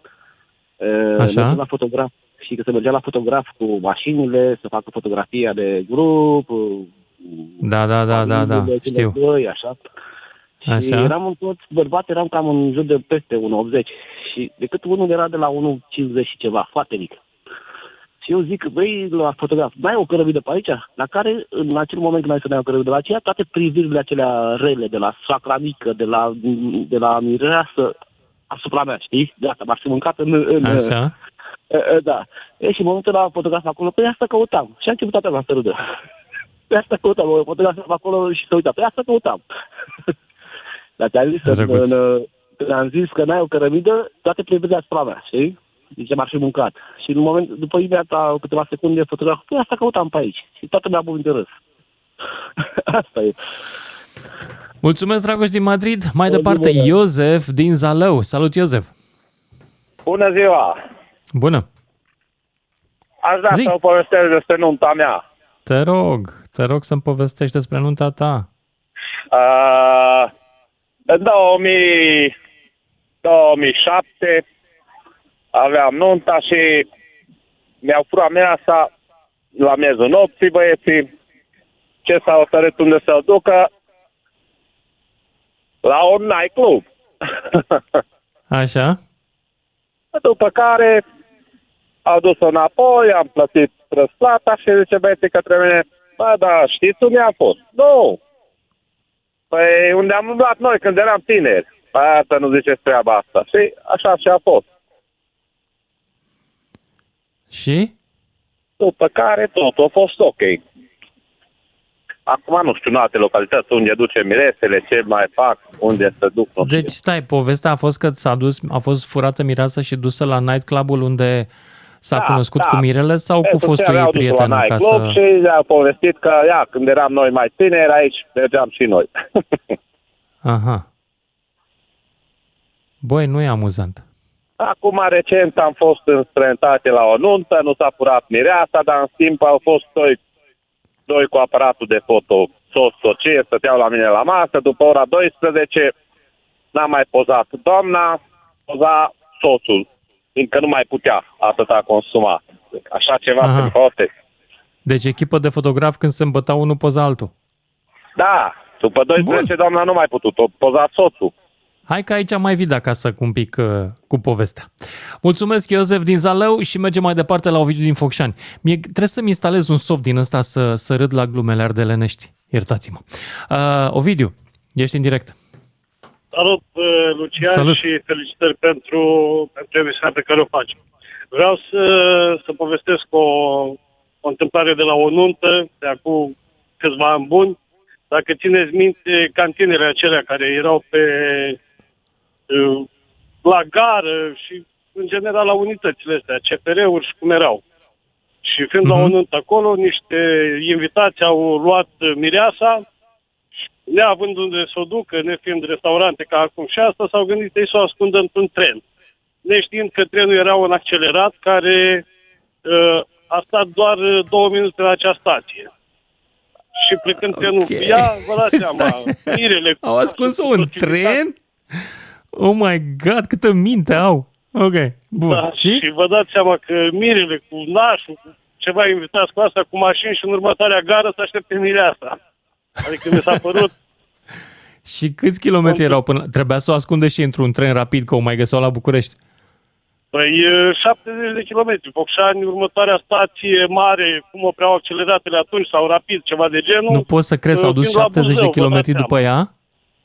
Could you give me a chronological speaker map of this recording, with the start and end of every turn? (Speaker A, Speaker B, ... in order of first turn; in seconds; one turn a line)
Speaker A: 0.8-9.8
Speaker B: 1.2-1.6
Speaker B: 7.6-9.2
Speaker A: 10.7-17.2
Speaker B: 10.7-11.1
Speaker A: 18.2-27.9
Speaker A: 28.5-31.0
Speaker B: 30.6-31.1
Speaker A: 31.7-35.8
Speaker A: 36.7-39.4
Speaker A: 41.0-51.6
Speaker B: 41.5-41.9
Speaker A: 52.9-53.3
Speaker B: 54.8-58.9
Speaker A: 56.3-56.9
Speaker C: 60.0-60.8
Speaker B: 61.3-61.6
Speaker C: 63.2-65.2
Speaker B: 65.7-68.5
Speaker C: 69.3-70.3
Speaker C: 71.1-72.3
Speaker C: 73.2-74.4
Speaker C: 75.5-76.8
Speaker C: 77.8-78.9
Speaker C: 79.6-81.1
Speaker C: 82.0-83.7
Speaker C: 85.8-86.8
Speaker B: 88.5-89.0
Speaker C: 90.1-91.0
Speaker C: 92.0-98.2
Speaker C: 99.5-104.6
Speaker B: 107.5-107.9
Speaker C: 108.8-110.6
Speaker C: 112.3-116.9
Speaker B: 116.6-121.5
Speaker B: 122.0-125.2
Speaker C: 122.1-122.8
Speaker C: 123.4-129.1
Speaker B: 130.4-130.8
Speaker B: 133.0-134.0
Speaker C: 134.6-140.2
Speaker C: 141.1-145.9
Speaker C: 146.7-149.8
Speaker C: 150.3-154.1
Speaker B: 153.4-153.7
Speaker B: 154.8-157.3
Speaker C: 158.2-161.3
Speaker B: 159.2-159.5
Speaker B: 161.9-164.7
Speaker B: 165.2-175.3
Speaker D: 176.3-180.8
Speaker B: 177.4-177.8
Speaker D: 181.3-187.6
Speaker D: 188.1-191.6
Speaker D: 192.5-192.9
Speaker D: 193.4-197.6
Speaker D: 198.4-202.8
Speaker B: 198.8-199.1
Speaker D: 203.9-208.8
Speaker D: 209.4-212.0
Speaker D: 212.7-215.7
Speaker D: 216.8-221.2
Speaker B: 217.3-219.2
Speaker B: 219.8-225.8
Speaker D: 225.2-232.2
Speaker D: 232.8-233.7
Speaker B: 234.8-239.2
Speaker D: 235.7-235.9
Speaker D: 240.1-249.1
Speaker B: 246.9-249.5